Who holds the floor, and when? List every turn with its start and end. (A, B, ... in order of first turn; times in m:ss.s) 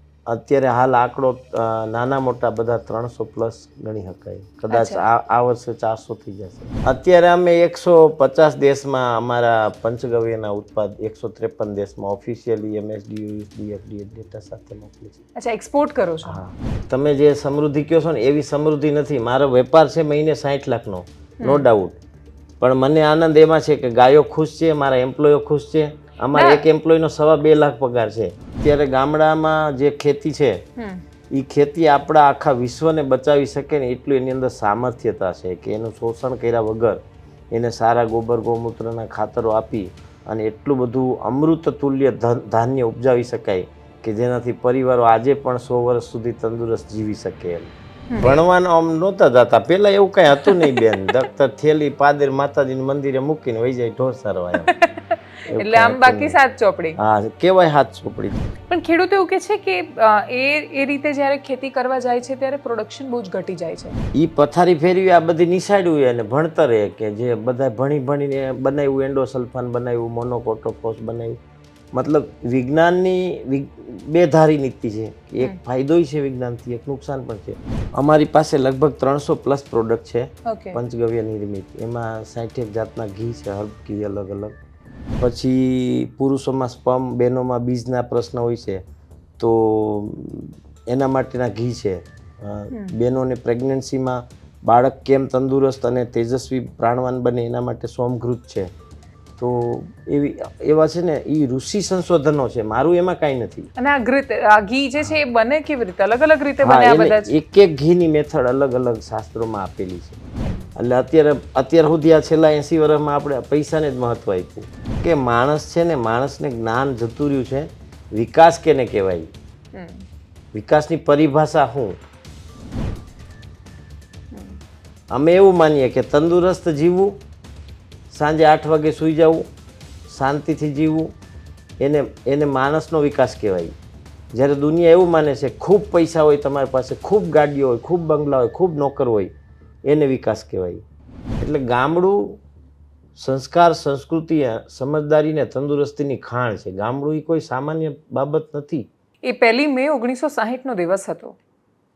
0:00.3-0:15.2 A
0:04.7-0:05.0 B
0:15.4-0:16.4 B
0:16.2-0:22.0 A
0:21.4-0:21.7 B
0:22.6-0:30.6 A
0:26.3-0:26.6 B
0:30.8-0:31.0 B
0:31.3-0:37.0 A
0:37.5-0:54.7 A
0:48.1-0:48.4 B
0:50.4-0:51.1 B
0:54.6-0:57.0 B
0:55.5-0:56.4 A
0:57.0-0:58.5 A
0:58.7-1:04.0 B
1:04.1-1:11.4 A
1:11.9-1:24.6 A
1:20.5-1:20.8 B
1:25.2-1:28.8 A
1:29.4-1:38.7 A
1:32.7-1:33.0 B
1:39.4-1:43.7 A
1:43.8-1:47.3 B
1:46.6-1:50.2 A
1:50.8-1:59.3 A
1:59.7-2:00.0 B
2:00.5-2:02.0 A
2:04.3-2:04.6 B
2:05.1-2:07.2 A
2:08.1-2:09.5 A
2:10.1-2:11.1 A
2:11.8-2:13.8 A
2:14.3-2:19.3 A
2:19.9-2:20.8 A
2:21.4-2:22.4 A
2:23.2-2:28.9 A
2:29.2-2:31.4 B